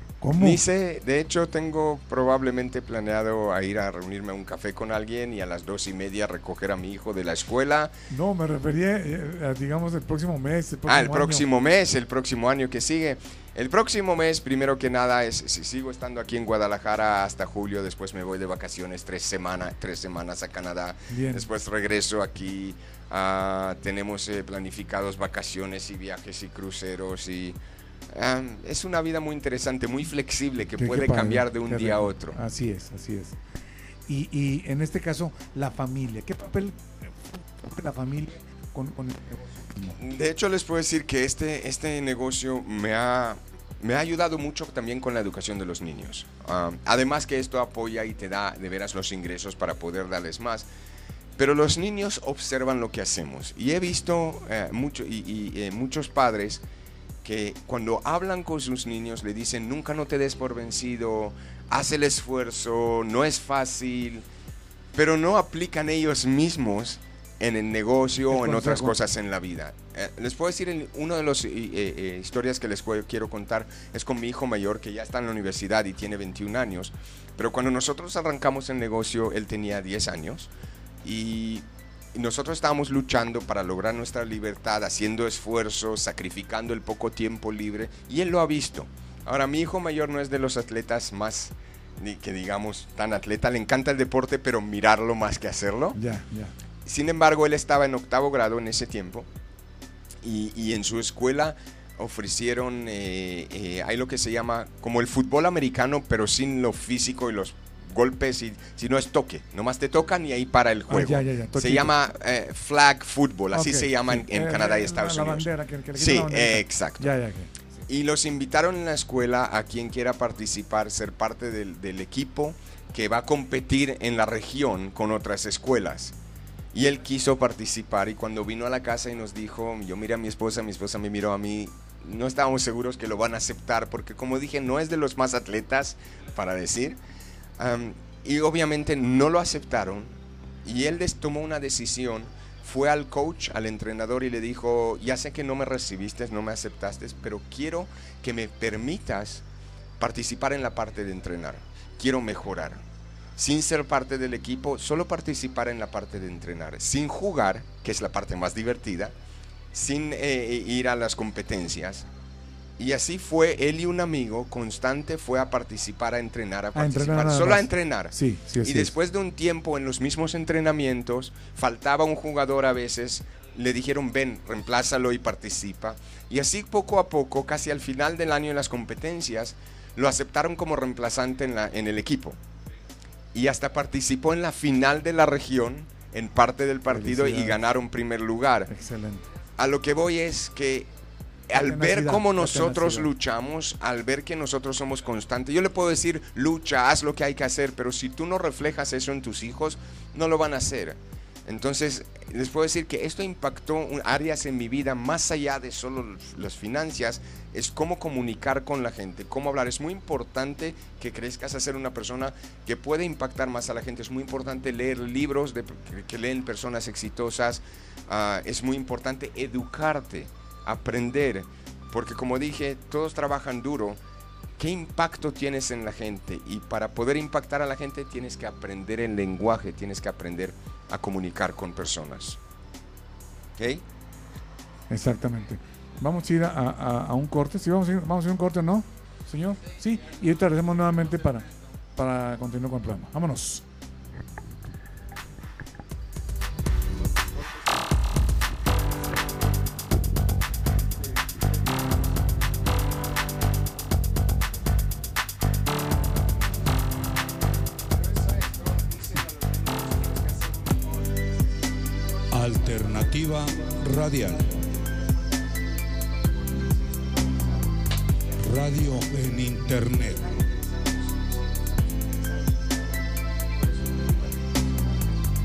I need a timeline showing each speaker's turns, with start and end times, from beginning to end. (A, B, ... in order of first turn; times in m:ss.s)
0:00.2-0:00.6 A
0:00.3-0:07.9 B
0:08.1-0:11.4 A
0:10.8-0:27.6 B
0:21.1-0:21.5 A
0:28.1-0:32.4 B
0:30.8-0:33.4 A
0:34.1-0:40.0 A
0:40.0-0:50.7 B
0:51.4-0:56.6 B
0:57.2-1:04.2 B
1:04.9-1:20.5 B
1:08.3-1:09.0 A
1:21.0-1:36.0 B
1:35.9-1:36.5 A
1:36.8-1:39.3 B
1:40.2-1:57.2 B
1:50.9-1:51.9 A
1:53.5-1:57.5 A
1:57.8-2:06.1 B
2:06.7-2:17.0 B
2:17.6-2:29.4 B
2:30.0-2:32.8 B
2:33.4-2:39.1 B
2:39.7-2:42.0 B
2:42.8-3:02.4 B
2:46.7-2:48.9 A
3:03.3-3:08.7 B
3:06.9-3:07.6 A
3:08.7-3:09.2 A
3:09.6-3:10.9 B
3:11.5-3:44.0 B
3:11.5-3:13.1 A
3:44.6-3:52.4 B
3:53.6-3:53.8 B
3:54.9-4:03.6 A
4:18.0-4:22.2 B
4:22.3-4:24.6 C
4:26.1-4:27.7 B
4:28.4-4:30.2 C
4:30.3-4:35.1 B